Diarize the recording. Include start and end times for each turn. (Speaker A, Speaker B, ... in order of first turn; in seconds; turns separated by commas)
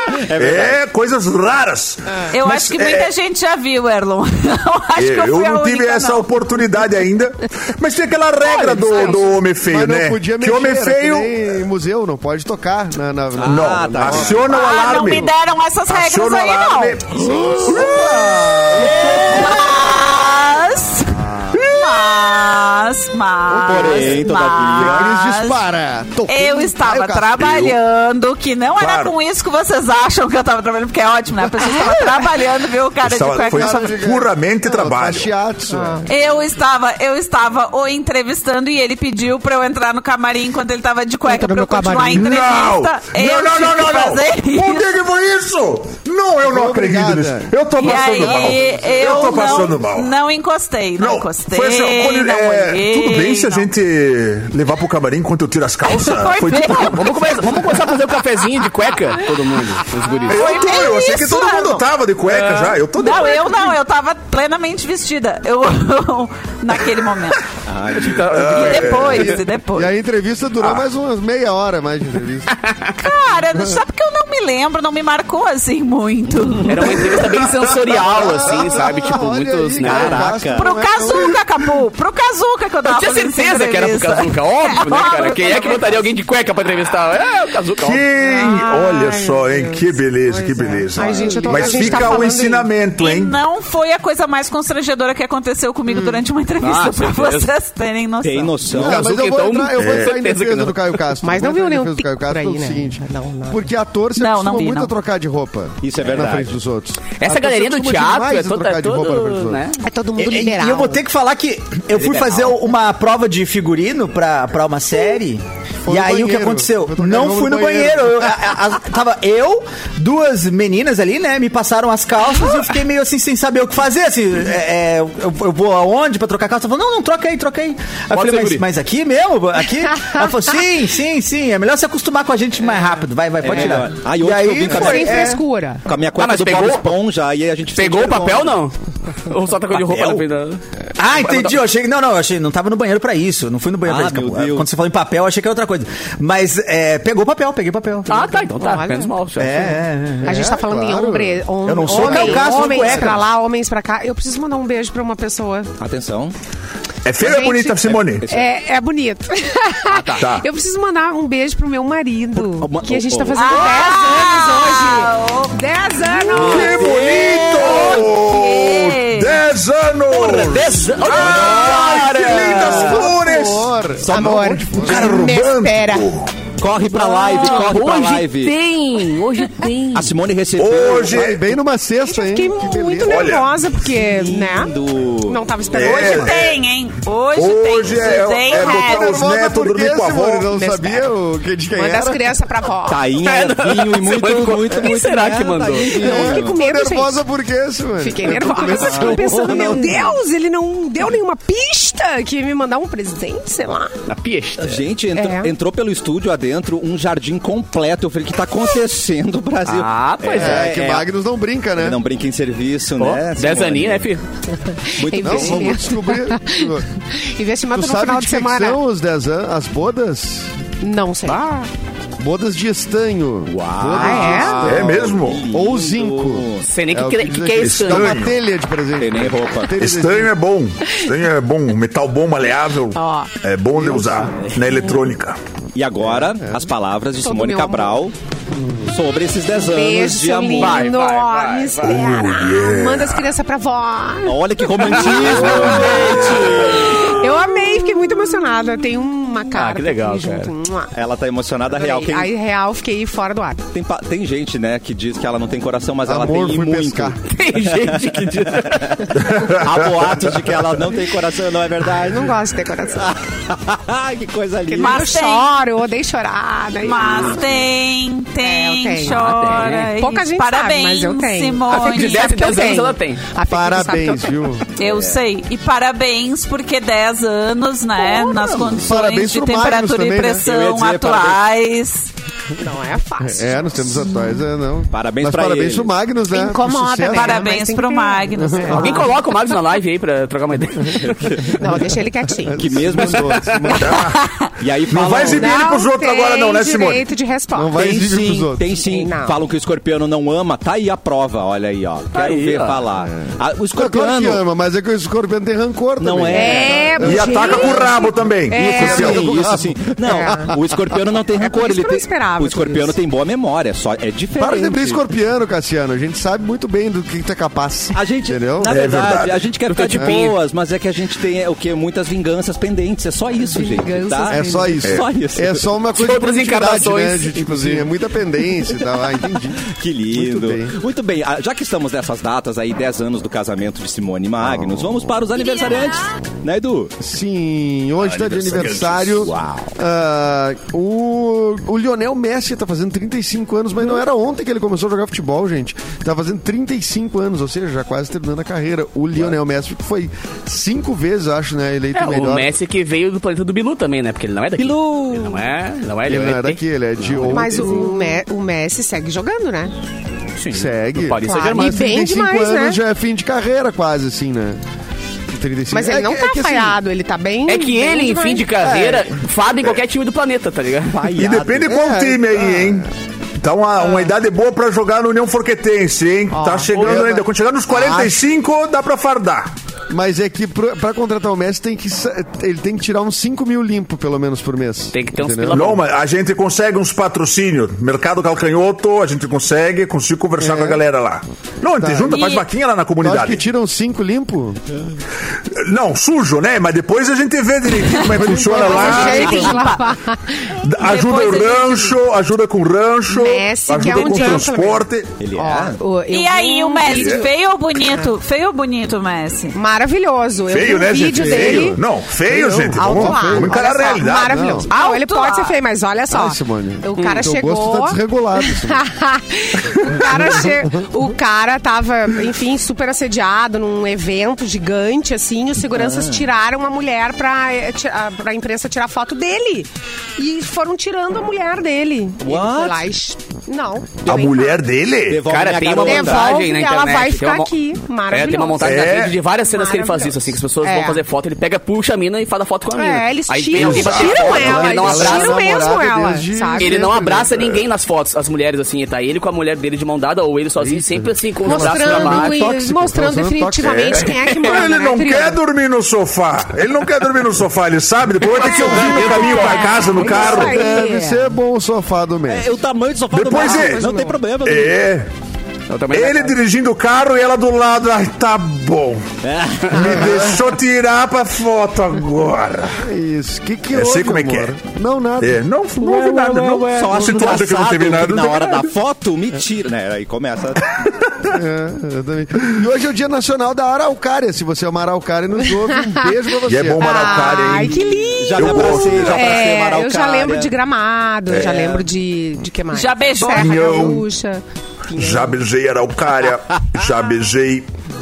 Speaker A: 0.1-0.8, Speaker B: 0.3-3.1, Speaker C: 2.3-6.3, Speaker B: 5.0-11.3, Speaker D: 8.4-9.3, Speaker E: 9.6-14.6, Speaker A: 13.4-14.5, Speaker B: 13.4-15.3, Speaker C: 14.4-17.1, Speaker B: 15.9-18.9, Speaker E: 17.2-19.2, Speaker A: 17.3-17.9, Speaker C: 18.2-25.6, Speaker A: 18.8-19.6, Speaker E: 21.2-21.6, Speaker B: 21.5-22.2, Speaker A: 23.5-25.1, Speaker E: 23.7-24.2, Speaker E: 24.8-27.6, Speaker C: 26.3-34.1, Speaker B: 28.8-29.1, Speaker B: 33.0-35.3, Speaker E: 33.5-36.1, Speaker F: 35.7-36.0, Speaker C: 36.1-44.9, Speaker F: 41.3-42.2, Speaker B: 42.1-50.1, Speaker E: 46.5-47.5, Speaker C: 47.8-53.7, Speaker E: 48.2-49.2, Speaker B: 51.0-56.9, Speaker C: 55.9-57.2, Speaker D: 56.6-60.5, Speaker C: 60.2-61.9, Speaker B: 60.3-63.6, Speaker D: 62.3-62.7, Speaker C: 63.0-67.4, Speaker A: 67.7-69.0, Speaker D: 68.0-69.0, Speaker B: 68.3-69.2, Speaker C: 68.5-69.9, Speaker E: 69.2-72.5, Speaker D: 72.6-72.9, Speaker C: 73.0-77.3, Speaker D: 76.6-80.3, Speaker E: 78.0-81.4, Speaker A: 79.8-80.7, Speaker C: 80.6-86.1, Speaker D: 82.9-88.0, Speaker F: 85.1-85.8, Speaker B: 87.8-93.4, Speaker F: 88.2-92.7, Speaker E: 91.0-92.2, Speaker C: 91.7-92.2, Speaker C: 93.0-98.7, Speaker D: 96.6-97.5, Speaker A: 98.2-99.1, Speaker E: 98.7-109.6, Speaker D: 98.7-101.0, Speaker B: 99.8-100.1, Speaker F: 101.2-103.7, Speaker C: 104.2-105.0, Speaker A: 105.8-106.6, Speaker D: 107.2-109.8, Speaker F: 109.8-111.0, Speaker G: 110.2-135.4, Speaker A: 111.9-112.6, Speaker E: 115.9-118.3, Speaker D: 128.1-128.7, Speaker A: 133.4-138.6, Speaker D: 133.5-133.8, Speaker F: 134.7-135.8, Speaker D: 136.2-136.9, Speaker D: 137.8-140.6, Speaker A: 139.9-140.2, Speaker G: 141.0-148.5, Speaker D: 141.2-141.6, Speaker A: 143.8-144.7, Speaker D: 148.1-149.8, Speaker F: 148.6-149.1, Speaker G: 149.4-150.5, Speaker E: 150.2-153.2, Speaker F: 150.2-155.7, Speaker G: 151.7-153.3, Speaker A: 152.0-152.6, Speaker A: 155.8-156.3, Speaker B: 157.1-158.2, Speaker F: 157.2-166.8, Speaker A: 157.9-158.5, Speaker D: 159.9-160.2, Speaker B: 160.2-160.5, Speaker A: 162.3-163.5, Speaker C: 163.3-165.6, Speaker A: 166.3-167.1, Speaker B: 166.4-173.7, Speaker D: 166.8-168.0, Speaker C: 167.5-169.4, Speaker D: 170.1-173.1, Speaker C: 171.2-171.4, Speaker E: 172.6-175.1, Speaker A: 174.1-175.1, Speaker F: 174.1-176.1, Speaker B: 174.8-176.3, Speaker A: 176.6-178.5, Speaker D: 176.9-180.1, Speaker C: 177.3-177.6, Speaker A: 179.9-181.2, Speaker B: 180.6-181.5, Speaker E: 181.1-183.4, Speaker F: 182.1-186.4, Speaker B: 183.1-183.5, Speaker A: 183.8-185.4, Speaker B: 185.7-186.6, Speaker C: 185.8-189.2, Speaker B: 187.3-190.5, Speaker E: 188.5-192.2, Speaker F: 190.5-191.1, Speaker F: 191.7-193.2, Speaker A: 192.8-195.4, Speaker D: 193.2-196.1, Speaker F: 194.7-197.2, Speaker A: 195.9-196.6, Speaker E: 195.9-200.0, Speaker F: 198.0-204.0, Speaker A: 198.7-200.2, Speaker D: 204.1-204.8, Speaker A: 204.6-211.1, Speaker F: 205.2-205.5, Speaker D: 209.7-210.7, Speaker E: 210.3-212.0, Speaker A: 211.8-214.1, Speaker D: 213.0-214.2, Speaker F: 214.5-218.8, Speaker A: 215.0-215.8, Speaker E: 215.2-216.9, Speaker E: 217.7-220.5, Speaker F: 220.8-221.7, Speaker E: 222.2-230.3, Speaker A: 223.5-226.7, Speaker F: 223.9-224.6, Speaker B: 224.6-225.4, Speaker D: 226.7-228.2, Speaker B: 227.6-228.3, Speaker A: 229.0-229.8, Speaker B: 229.8-235.4, Speaker F: 232.9-233.3, Speaker E: 233.8-234.3, Speaker A: 235.8-238.2, Speaker E: 236.0-236.7, Speaker F: 237.2-238.0, Speaker E: 238.6-238.9, Speaker A: 238.9-240.9, Speaker F: 239.5-250.9, Speaker D: 240.6-242.0, Speaker B: 241.9-243.3, Speaker A: 244.2-247.1, Speaker D: 249.5-250.5, Speaker A: 250.9-252.3, Speaker F: 251.7-253.6, Speaker A: 253.7-257.2, Speaker E: 256.1-257.2, Speaker D: 257.3-259.1, Speaker A: 257.7-258.0, Speaker A: 258.7-265.1, Speaker B: 259.3-260.1, Speaker F: 261.9-263.1, Speaker F: 264.7-267.4, Speaker C: 264.8-265.5, Speaker C: 266.8-272.6, Speaker F: 268.4-274.4, Speaker D: 269.1-269.9, Speaker D: 271.7-273.2, Speaker E: 273.5-274.7, Speaker C: 274.8-282.1, Speaker A: 274.8-275.2, Speaker A: 278.4-278.8, Speaker E: 278.7-280.5, Speaker A: 280.4-281.4, Speaker F: 282.6-284.2, Speaker E: 283.2-287.5, Speaker A: 284.9-285.9, Speaker F: 286.3-289.1, Speaker C: 287.1-289.0, Speaker E: 288.4-289.1, Speaker D: 288.7-291.5, Speaker A: 291.2-291.5, Speaker F: 291.5-292.6, Speaker E: 292.3-294.1, Speaker A: 292.5-293.6, Speaker D: 293.2-293.8, Speaker B: 293.8-294.2, Speaker A: 294.6-295.6, Speaker B: 294.9-297.1, Speaker F: 295.2-297.8, Speaker E: 297.6-298.7, Speaker A: 297.8-304.4, Speaker F: 298.8-299.4, Speaker D: 302.1-302.8, Speaker E: 303.8-307.9, Speaker A: 306.0-307.3, Speaker F: 306.3-309.2, Speaker B: 307.0-309.3, Speaker A: 308.5-315.0, Speaker E: 308.6-310.6, Speaker F: 310.0-310.5, Speaker F: 311.4-313.0, Speaker E: 314.4-318.7, Speaker A: 317.9-325.6, Speaker B: 318.6-319.5, Speaker D: 319.8-320.3, Speaker E: 319.9-320.2, Speaker F: 323.4-324.8, Speaker E: 324.3-330.8, Speaker D: 326.0-327.9, Speaker A: 329.6-336.9, Speaker E: 337.0-352.5, Speaker B: 338.0-339.3, Speaker A: 338.5-339.8, Speaker D: 351.9-356.6, Speaker A: 354.6-355.5, Speaker E: 356.1-358.0, Speaker F: 357.3-359.7, Speaker D: 360.4-361.8, Speaker E: 360.5-364.6, Speaker F: 361.2-362.8, Speaker E: 365.3-366.8, Speaker F: 365.7-368.5, Speaker D: 367.5-371.1, Speaker E: 368.6-369.1, Speaker A: 370.9-371.8, Speaker B: 371.1-372.9, Speaker E: 371.7-372.9, Speaker B: 373.4-379.5, Speaker F: 376.3-376.7, Speaker D: 376.7-377.1, Speaker E: 376.7-378.2, Speaker E: 379.9-385.8, Speaker D: 384.9-385.8, Speaker B: 385.5-393.4, Speaker E: 390.4-390.8, Speaker E: 391.8-392.2, Speaker C: 392.1-392.5, Speaker E: 393.0-394.6, Speaker B: 395.5-399.4, Speaker C: 397.9-400.0, Speaker E: 398.2-399.4, Speaker F: 398.5-400.5, Speaker B: 400.6-405.1, Speaker C: 400.7-402.0, Speaker F: 403.1-407.3, Speaker C: 403.8-404.4, Speaker A: 405.2-405.8, Speaker C: 406.1-409.6, Speaker B: 406.9-407.2, Speaker F: 409.5-411.8, Speaker B: 410.5-414.6, Speaker E: 411.1-414.7, Speaker F: 412.7-434.6, Speaker C: 414.7-415.6, Speaker E: 416.1-418.8, Speaker E: 419.9-420.8, Speaker A: 425.7-426.3, Speaker A: 432.2-432.9, Speaker B: 434.1-435.2, Speaker A: 435.0-436.4, Speaker D: 435.3-437.5, Speaker F: 435.8-438.9, Speaker D: 438.1-445.4, Speaker B: 438.6-439.2, Speaker F: 439.4-441.0, Speaker F: 442.8-446.9, Speaker B: 443.6-444.2, Speaker E: 443.6-447.6, Speaker D: 446.6-452.4, Speaker E: 450.6-454.1, Speaker F: 451.4-455.4, Speaker B: 453.8-460.6, Speaker D: 454.2-454.6, Speaker F: 458.4-461.3, Speaker A: 458.5-460.3, Speaker D: 458.6-459.6, Speaker E: 460.2-462.5, Speaker A: 462.3-464.9, Speaker B: 463.1-463.9, Speaker F: 463.4-464.2, Speaker B: 464.4-465.1, Speaker D: 465.7-466.4, Speaker B: 465.9-469.1, Speaker A: 469.2-470.4, Speaker B: 469.7-472.8, Speaker E: 472.8-475.4, Speaker B: 473.7-474.6, Speaker B: 475.2-478.7, Speaker D: 475.8-477.0, Speaker A: 476.6-480.7, Speaker B: 480.7-481.3, Speaker E: 481.3-487.5, Speaker B: 486.5-489.4, Speaker F: 486.8-495.4, Speaker A: 488.2-490.5, Speaker B: 491.3-491.7, Speaker C: 492.7-493.9, Speaker B: 493.3-494.1, Speaker B: 494.9-497.7